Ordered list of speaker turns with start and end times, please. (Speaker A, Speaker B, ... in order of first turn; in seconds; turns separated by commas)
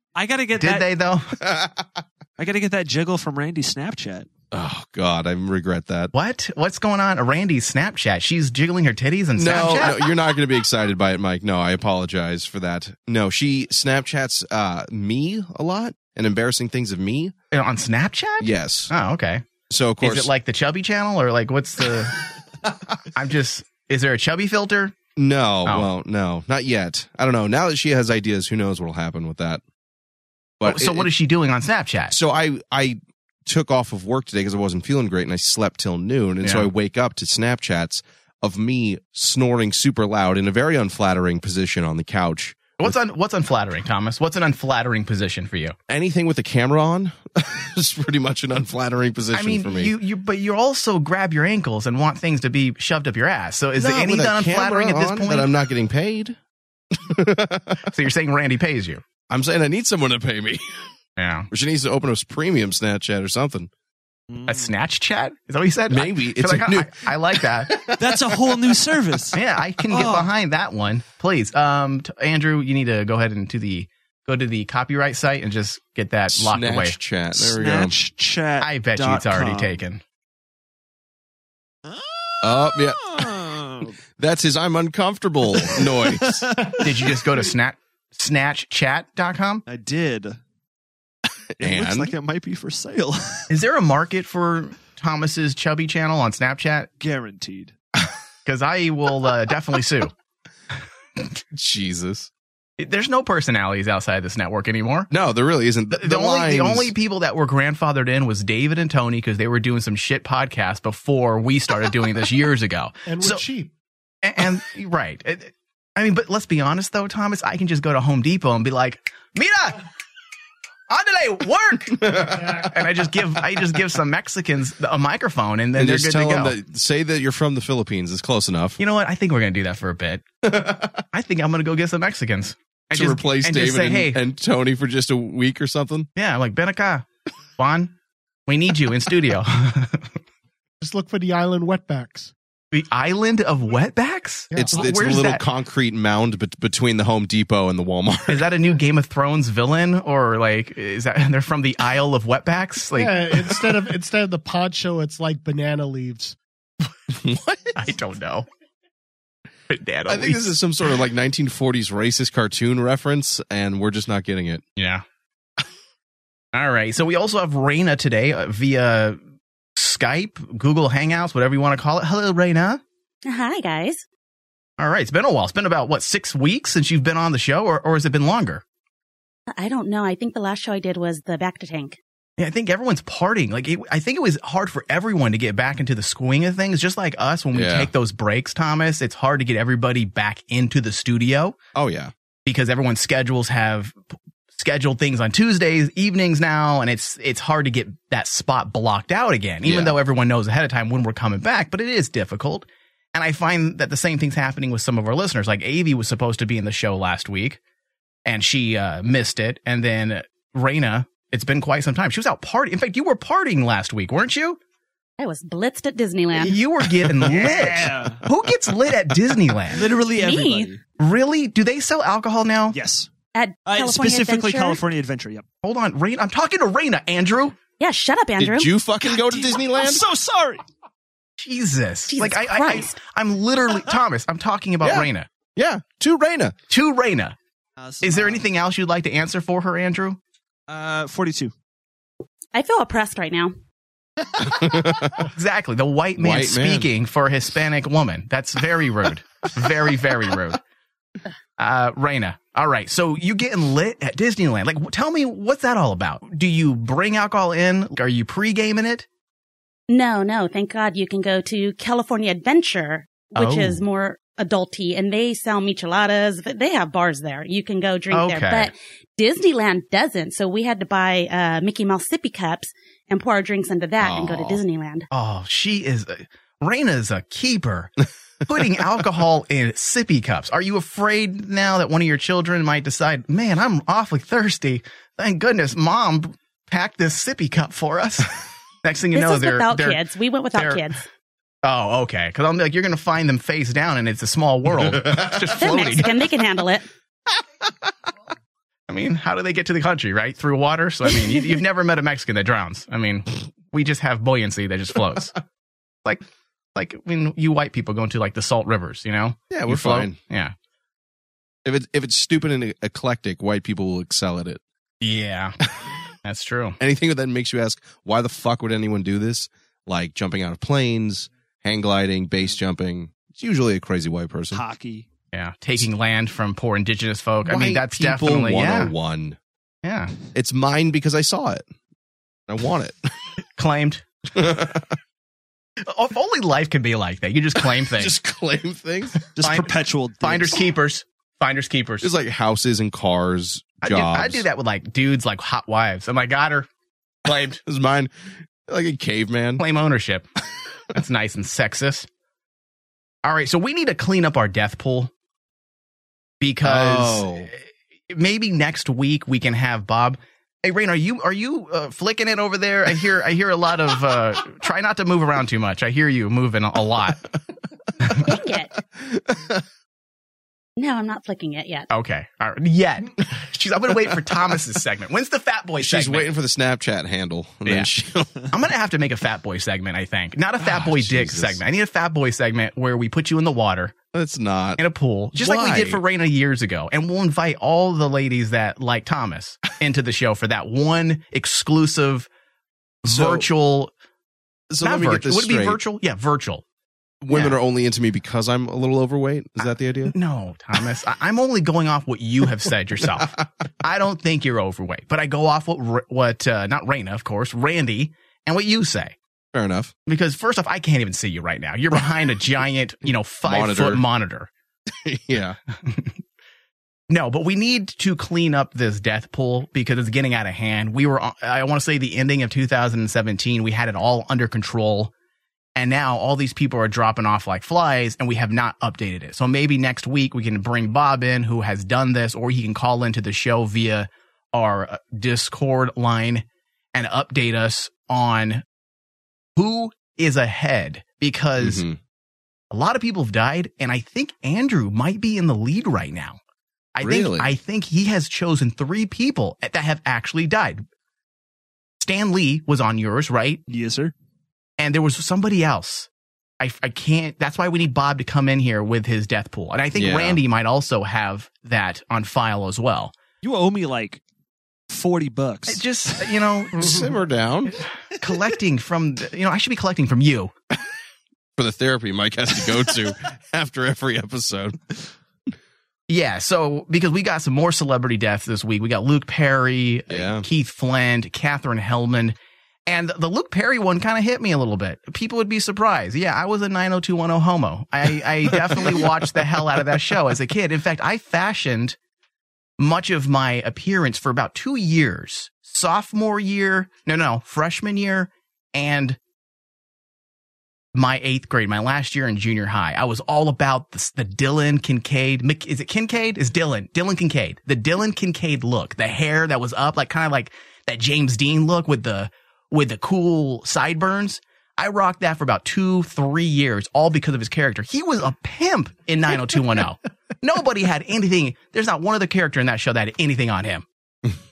Speaker A: 0.1-0.9, Speaker B: 0.6-1.3, Speaker C: 1.4-1.9, Speaker A: 2.4-4.3, Speaker C: 4.5-6.1, Speaker B: 6.1-10.1, Speaker C: 9.3-17.3, Speaker B: 17.5-19.4, Speaker C: 18.4-18.9, Speaker C: 19.7-20.3, Speaker B: 20.0-22.2, Speaker B: 23.1-25.0, Speaker C: 25.1-29.6, Speaker C: 30.6-31.1, Speaker B: 30.6-32.1, Speaker C: 32.1-42.9, Speaker B: 36.4-36.7, Speaker B: 42.8-45.7, Speaker C: 45.9-49.9, Speaker B: 49.3-55.5, Speaker C: 53.8-56.4, Speaker C: 56.9-57.8, Speaker B: 57.9-59.0, Speaker C: 59.3-60.9, Speaker B: 61.2-61.5, Speaker C: 61.5-63.7, Speaker A: 64.3-64.7, Speaker B: 64.4-67.7, Speaker C: 65.9-68.8, Speaker A: 68.0-69.4, Speaker B: 69.3-77.0, Speaker A: 69.9-70.3, Speaker C: 76.3-78.0, Speaker A: 77.3-79.8, Speaker B: 78.6-80.0, Speaker A: 81.9-83.9, Speaker C: 82.4-83.3, Speaker C: 84.2-86.5, Speaker A: 85.7-86.8, Speaker B: 86.8-89.6, Speaker A: 89.7-90.4, Speaker C: 91.6-92.1, Speaker A: 91.6-93.5, Speaker B: 93.5-96.9, Speaker A: 97.0-97.7, Speaker B: 98.4-100.1, Speaker C: 101.5-102.3, Speaker B: 102.8-105.1, Speaker C: 105.1-106.9, Speaker B: 105.9-113.4, Speaker D: 113.0-113.7, Speaker B: 114.2-119.8, Speaker B: 120.9-126.5, Speaker C: 122.0-122.6, Speaker C: 125.7-128.8, Speaker B: 128.8-130.2, Speaker C: 130.4-131.0, Speaker B: 131.1-134.2, Speaker C: 132.9-136.1, Speaker B: 136.2-137.1, Speaker B: 137.6-137.9, Speaker B: 138.5-140.1, Speaker D: 140.8-142.3, Speaker B: 142.7-145.4, Speaker D: 144.5-145.2, Speaker C: 144.5-148.5, Speaker B: 148.3-153.6, Speaker D: 152.9-156.3, Speaker C: 157.1-157.8, Speaker B: 157.8-158.4, Speaker B: 159.7-160.6, Speaker C: 160.1-164.6, Speaker B: 164.8-165.0, Speaker B: 166.5-169.2, Speaker B: 169.8-172.8, Speaker E: 173.2-174.0, Speaker B: 174.8-178.6, Speaker E: 179.5-182.0, Speaker B: 182.4-191.6, Speaker C: 187.5-187.9, Speaker C: 191.7-192.1, Speaker B: 192.4-194.0, Speaker B: 194.5-207.6, Speaker C: 199.6-199.9, Speaker B: 208.2-214.6, Speaker E: 215.2-216.6, Speaker B: 216.3-219.8, Speaker C: 217.1-217.5, Speaker A: 217.2-218.2, Speaker A: 219.7-220.8, Speaker E: 220.2-220.7, Speaker B: 221.0-222.8, Speaker A: 222.7-223.1, Speaker E: 223.3-224.8, Speaker A: 223.6-225.4, Speaker B: 225.6-227.6, Speaker E: 227.8-228.7, Speaker C: 228.4-230.1, Speaker A: 229.1-230.6, Speaker B: 231.4-235.3, Speaker E: 232.1-233.0, Speaker C: 234.8-236.5, Speaker B: 236.7-237.3, Speaker A: 237.8-238.4, Speaker B: 238.0-240.2, Speaker A: 240.7-241.5, Speaker E: 242.5-243.5, Speaker C: 244.4-245.2, Speaker B: 245.2-250.6, Speaker C: 246.2-246.9, Speaker B: 251.6-259.1, Speaker E: 259.9-275.1, Speaker B: 263.3-263.8, Speaker B: 268.1-268.7, Speaker C: 274.0-274.6, Speaker B: 275.1-277.9, Speaker B: 278.5-288.3, Speaker B: 288.8-290.0, Speaker E: 289.1-291.0, Speaker B: 290.5-290.8, Speaker B: 291.6-296.1, Speaker C: 294.9-295.4, Speaker E: 295.5-296.9, Speaker B: 298.9-305.3, Speaker B: 306.7-310.5, Speaker C: 309.5-310.2, Speaker C: 311.6-314.6, Speaker B: 315.0-315.6, Speaker B: 316.2-316.8, Speaker C: 316.8-324.6, Speaker A: 324.5-325.1, Speaker B: 325.3-328.9, Speaker C: 327.4-329.4, Speaker B: 329.8-330.1, Speaker C: 330.3-331.6, Speaker C: 332.5-333.1, Speaker B: 333.6-334.0, Speaker C: 334.3-334.9, Speaker B: 335.9-338.1, Speaker C: 337.9-339.2, Speaker A: 339.3-340.6, Speaker B: 339.4-342.1, Speaker C: 342.0-344.4, Speaker B: 343.8-346.7, Speaker B: 347.2-347.6, Speaker C: 347.3-348.1, Speaker C: 348.6-349.6, Speaker B: 349.6-350.2, Speaker B: 350.9-352.1, Speaker B: 353.2-355.1, Speaker B: 356.4-367.2, Speaker C: 356.6-357.5, Speaker E: 368.2-368.7, Speaker C: 368.9-369.6, Speaker E: 370.8-371.9, Speaker B: 371.9-376.3, Speaker C: 375.8-378.4, Speaker B: 378.5-383.9, Speaker C: 380.6-381.6, Speaker C: 384.1-384.8, Speaker B: 384.8-392.3, Speaker C: 385.3-386.0, Speaker B: 393.0-393.9, Speaker C: 393.0-393.5, Speaker C: 394.7-395.8, Speaker B: 394.8-396.6, Speaker C: 397.2-400.1, Speaker B: 397.3-397.6, Speaker B: 399.6-409.1, Speaker C: 409.5-409.9, Speaker B: 410.1-414.5, Speaker C: 413.4-414.0, Speaker C: 414.9-415.6, Speaker B: 415.8-416.2, Speaker B: 417.1-425.1, Speaker B: 425.8-438.6, Speaker B: 439.6-441.8, Speaker C: 441.6-442.0, Speaker B: 442.7-446.4, Speaker B: 446.9-450.8, Speaker C: 447.0-447.5, Speaker B: 452.0-453.6, Speaker A: 453.7-454.1, Speaker B: 454.8-456.1, Speaker B: 456.6-463.1, Speaker C: 459.9-460.4, Speaker A: 463.4-464.2, Speaker A: 464.9-466.3, Speaker B: 465.7-467.1, Speaker C: 466.8-467.7, Speaker B: 468.2-470.5, Speaker C: 471.6-475.1, Speaker B: 476.1-482.4, Speaker C: 480.1-480.4, Speaker B: 482.9-492.0, Speaker C: 488.6-489.1, Speaker B: 492.8-499.2, Speaker B: 500.9-523.9